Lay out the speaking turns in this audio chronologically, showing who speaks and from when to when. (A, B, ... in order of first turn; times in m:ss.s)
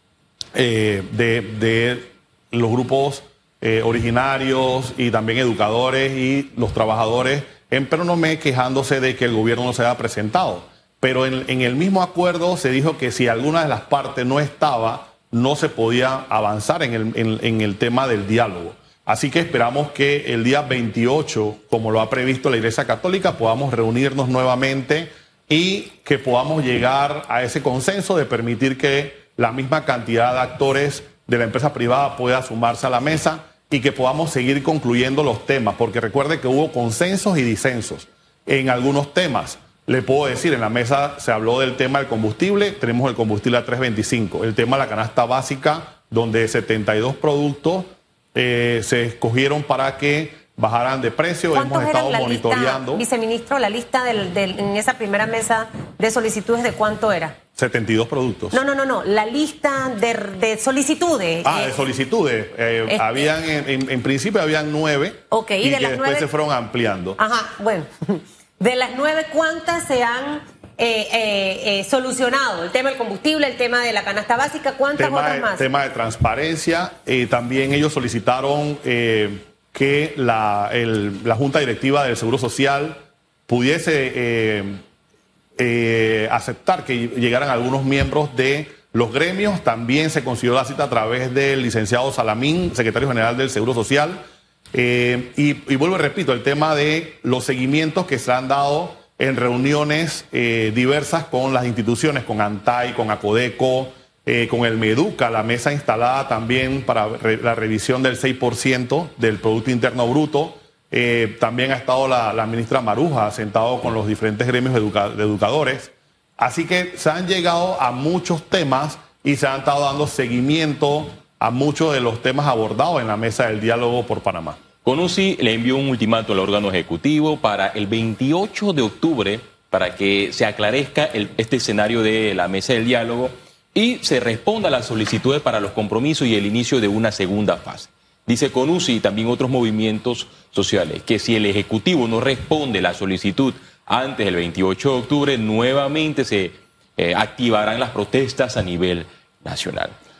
0:00.5-0:53.0 A
0:51.5-0:57.4 B
0:57.6-0:58.6 A
0:58.5-1:01.8 B
1:01.4-1:07.2 A
1:02.9-1:03.2 B
1:05.3-1:06.3 B
1:07.2-1:15.6 B
1:15.0-1:24.8 A
1:25.6-1:34.2 A
1:34.7-2:04.6 A
2:04.8-2:29.9 C